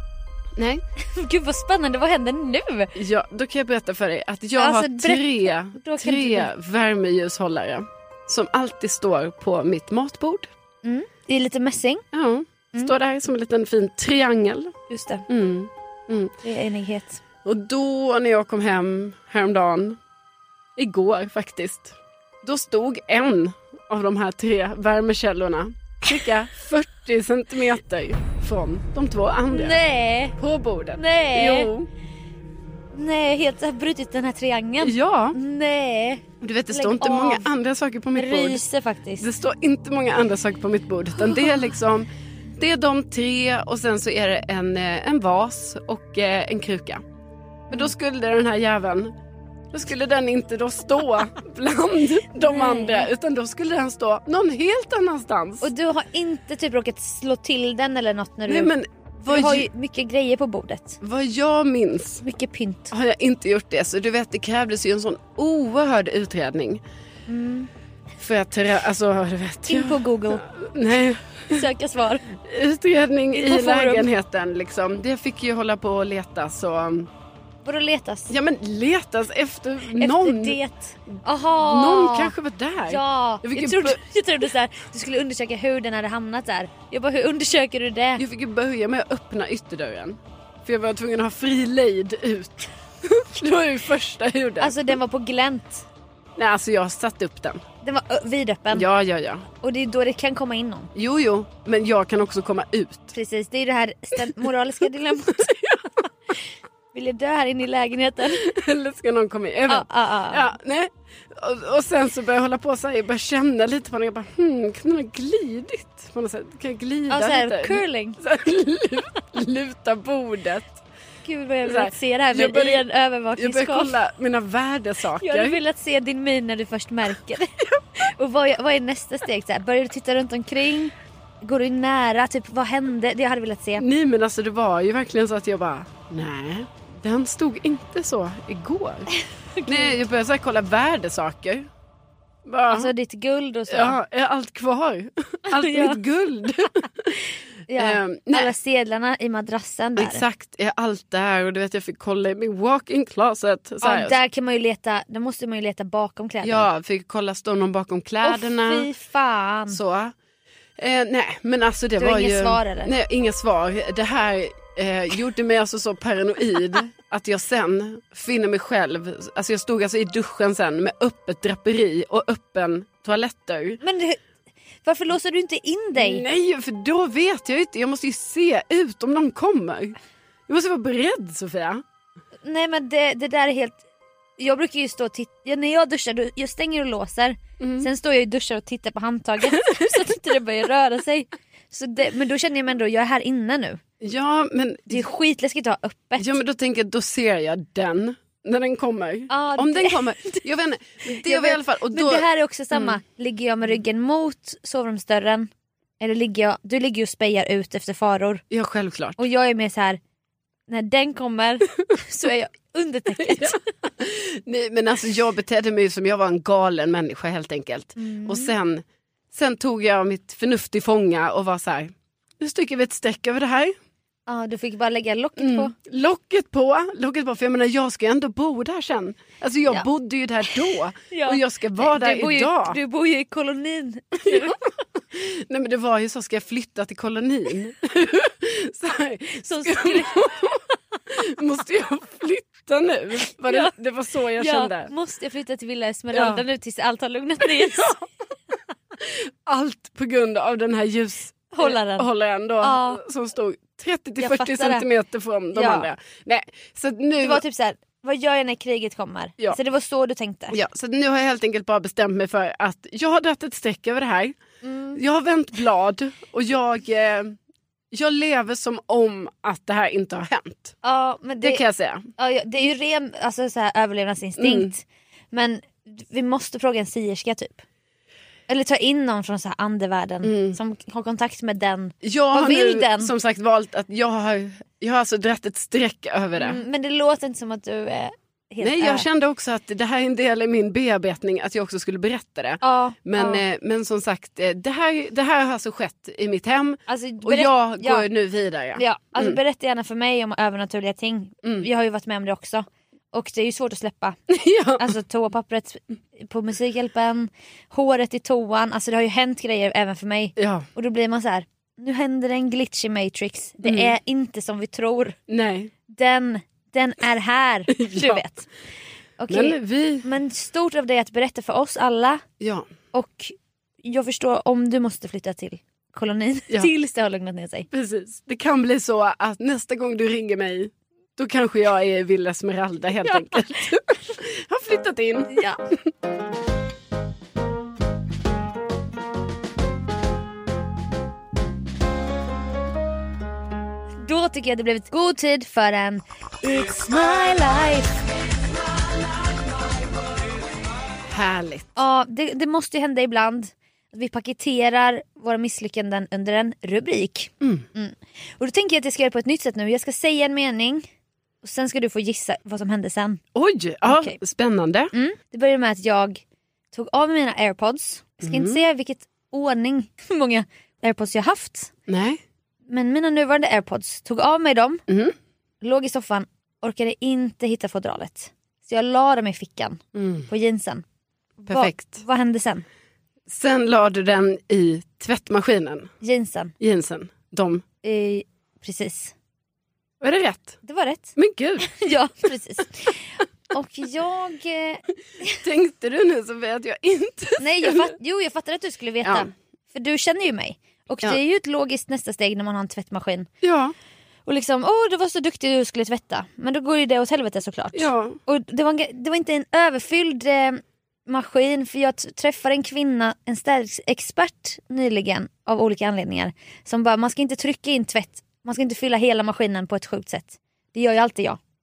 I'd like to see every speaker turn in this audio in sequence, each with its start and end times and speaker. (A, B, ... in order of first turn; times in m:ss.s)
0:00.6-0:00.8 A
0:01.0-0:02.9 B
0:02.9-0:10.5 A
0:04.6-0:06.5 B
0:10.8-0:12.0 B
0:12.1-0:14.7 A
0:14.9-0:15.2 B
0:15.3-0:16.3 A
0:16.4-0:17.2 B
0:17.4-0:20.0 A
0:20.8-0:29.8 A
0:29.5-0:30.4 B
0:30.4-0:31.9 A
0:31.0-0:31.7 B
0:32.9-0:37.5 B
0:34.8-0:35.4 A
0:36.4-0:38.6 A
0:38.1-0:39.2 B
0:39.2-0:47.0 A
0:41.2-0:41.6 B
0:47.7-0:49.1 A
0:49.7-0:55.7 A
0:52.4-0:53.1 B
0:55.6-0:58.7 B
0:58.5-0:59.7 A
0:59.2-1:01.0 B
1:01.0-1:02.2 A
1:02.2-1:02.9 B
1:02.9-1:06.8 A
1:07.3-1:07.7 B
1:08.2-1:11.6 A
1:09.7-1:10.4 B
1:11.5-1:12.2 B
1:12.4-1:17.1 A
1:13.3-1:14.1 B
1:17.6-1:18.3 B
1:18.3-1:20.6 A
1:20.0-1:22.3 B
1:21.6-1:24.0 A
1:22.8-1:28.2 B
1:28.2-1:34.8 A
1:34.6-1:35.8 B
1:36.4-1:37.6 A
1:37.8-1:38.9 B
1:38.7-1:39.4 A
1:39.6-1:40.9 B
1:40.9-1:43.1 A
1:43.1-1:45.6 B
1:45.2-1:45.9 A
1:46.9-1:48.4 B
1:48.3-2:00.8 A
1:49.7-1:50.5 B
1:57.1-1:58.2 B
2:01.2-2:03.9 B
2:01.6-2:02.8 A
2:03.4-2:05.6 A
2:05.2-2:13.8 B
2:13.8-2:19.1 A
2:19.2-2:20.0 B
2:19.7-2:21.7 A
2:22.4-2:22.9 A
2:22.7-2:24.0 B
2:23.7-2:27.2 A
2:25.5-2:26.0 B
2:27.7-2:30.2 B
2:27.8-2:28.5 A
2:30.0-2:34.2 A
2:33.8-2:36.7 B
2:36.4-2:38.9 A
2:38.2-2:39.8 B
2:39.7-2:40.1 A
2:40.8-2:53.8 A
2:42.0-2:42.9 B
2:53.8-2:54.2 B
2:54.8-2:56.2 B
2:55.9-3:00.0 A
3:00.5-3:01.8 A
3:02.4-3:03.8 B
3:04.4-3:13.8 B
3:07.6-3:07.9 A
3:09.5-3:10.0 A
3:14.0-3:15.0 A
3:14.9-3:16.4 B
3:16.2-3:23.0 A
3:19.3-3:20.4 B
3:21.0-3:28.4 B
3:28.5-3:29.2 A
3:29.2-3:30.0 B
3:30.7-3:33.6 B
3:33.2-3:43.7 A
3:38.0-3:38.5 B
3:44.3-3:45.7 B
3:45.4-3:52.8 A
3:50.4-3:54.6 B
3:54.2-4:04.9 A
3:59.4-4:00.3 B
4:03.5-4:03.7 B
4:04.3-4:08.1 B
4:06.1-4:06.4 A
4:07.4-4:08.0 A
4:09.0-4:17.4 A
4:11.5-4:12.1 B
4:12.6-4:13.0 B
4:14.2-4:14.8 B
4:15.5-4:15.9 B
4:17.2-4:20.6 B
4:20.5-4:24.4 A
4:24.6-4:25.0 B
4:24.9-4:27.4 A
4:27.9-4:30.7 A
4:30.8-4:31.6 B
4:31.4-4:32.1 A
4:32.2-4:37.6 B
4:34.4-4:34.7 A
4:38.5-4:43.1 B
4:40.2-4:40.6 A
4:42.0-4:46.6 A
4:46.4-4:49.1 B
4:48.6-4:59.4 A
4:52.6-4:53.4 B
4:56.9-4:58.0 B
4:58.8-5:04.2 B
5:04.3-5:04.9 A
5:04.8-5:15.2 B
5:10.4-5:10.7 A
5:13.6-5:13.9 A
5:15.3-5:15.7 A
5:15.9-5:18.5 B
5:17.8-5:18.2 A
5:19.2-5:22.2 B
5:19.3-5:20.0 A
5:22.4-5:22.7 A
5:22.9-5:27.7 B
5:27.7-5:35.3 A
5:33.0-5:33.6 B
5:35.3-5:35.6 B
5:44.0-5:48.0 B
5:51.1-5:51.8 A
5:51.8-6:00.8 B
5:57.4-5:57.6 A
6:01.4-6:03.2 B
6:03.3-6:04.9 A
6:03.8-6:04.2 B
6:04.9-6:11.7 B
6:08.2-6:08.6 A
6:11.9-6:12.2 A
6:12.7-6:14.8 B
6:14.9-6:15.1 A
6:15.6-6:20.8 B
6:19.9-6:20.3 A
6:21.4-6:22.6 B
6:21.4-6:22.0 A
6:23.3-6:25.9 A
6:26.0-6:26.5 B
6:26.6-6:27.6 A
6:27.8-6:29.1 B
6:30.0-6:30.6 A
6:30.6-6:35.4 B
6:31.2-6:31.7 A
6:35.4-6:37.9 A
6:37.4-6:43.3 B
6:39.0-6:39.3 A
6:43.4-6:43.7 A
6:44.2-7:01.4 B
6:47.7-6:48.2 A